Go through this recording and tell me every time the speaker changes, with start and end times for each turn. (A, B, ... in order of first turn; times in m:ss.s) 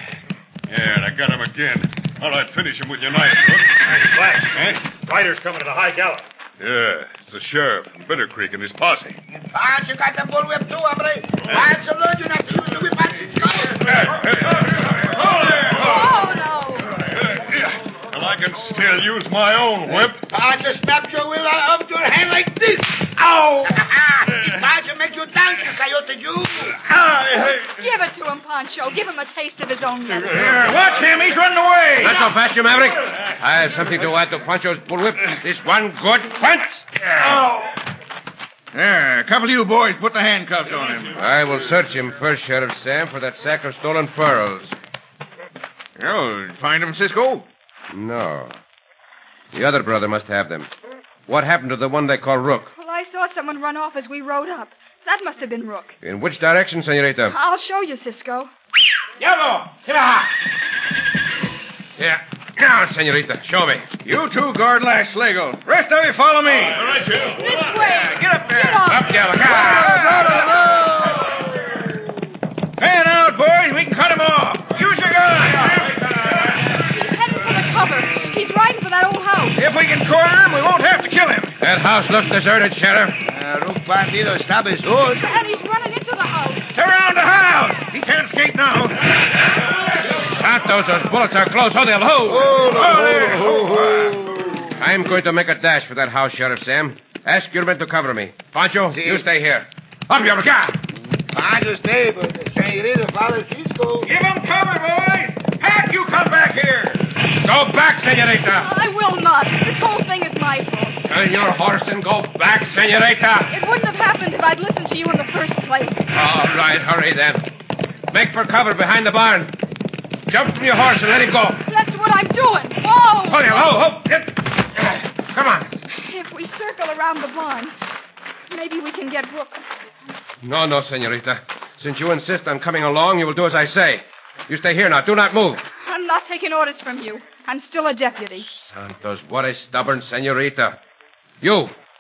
0:00.7-0:04.8 A
0:03.9-0:06.3 B
0:06.6-0:09.2 A
0:09.3-0:14.1 C
0:13.9-0:14.6 A
0:15.2-0:16.1 A
0:15.6-0:17.0 D
0:17.1-0:20.2 A
0:19.9-0:26.8 C
0:26.8-0:27.6 A
0:27.3-0:30.5 D
0:30.3-0:32.3 E
0:30.4-0:31.2 A
0:32.0-0:37.4 F
0:37.2-0:37.5 E
0:38.7-0:41.2 E
0:41.1-0:44.8 F
0:46.0-0:47.5 E
0:47.9-0:48.6 F
0:49.5-0:50.7 F
0:51.3-0:52.7 F
0:52.7-0:56.0 D
0:56.0-0:57.4 F
0:57.3-0:58.5 D
0:59.2-1:00.1 E
1:02.0-1:04.0 F
1:04.0-1:11.1 E
1:07.3-1:09.2 D
1:08.9-1:10.1 F
1:09.6-1:11.2 C
1:12.8-1:16.0 E
1:16.8-1:19.6 D
1:19.6-1:21.6 E
1:21.6-1:23.2 F
1:23.2-1:25.2 C
1:25.2-1:26.7 D
1:26.7-1:29.0 E
1:30.0-1:32.7 F
1:32.3-1:34.7 C
1:32.6-1:34.2 E
1:34.8-1:40.8 F
1:38.9-1:39.3 C
1:40.9-1:44.1 C
1:44.0-1:47.0 E
1:47.3-1:48.7 F
1:48.5-1:51.0 D
1:51.0-1:53.5 F
1:53.5-1:56.1 D
1:56.1-1:57.4 F
1:58.1-1:59.6 F
2:00.3-2:01.6 F
2:01.6-2:03.8 D
2:03.3-2:05.7 F
2:05.9-2:07.8 D
2:08.5-2:09.6 D
2:10.4-2:15.6 F
2:15.8-2:18.5 D
2:18.5-2:20.8 F
2:21.4-2:21.7 F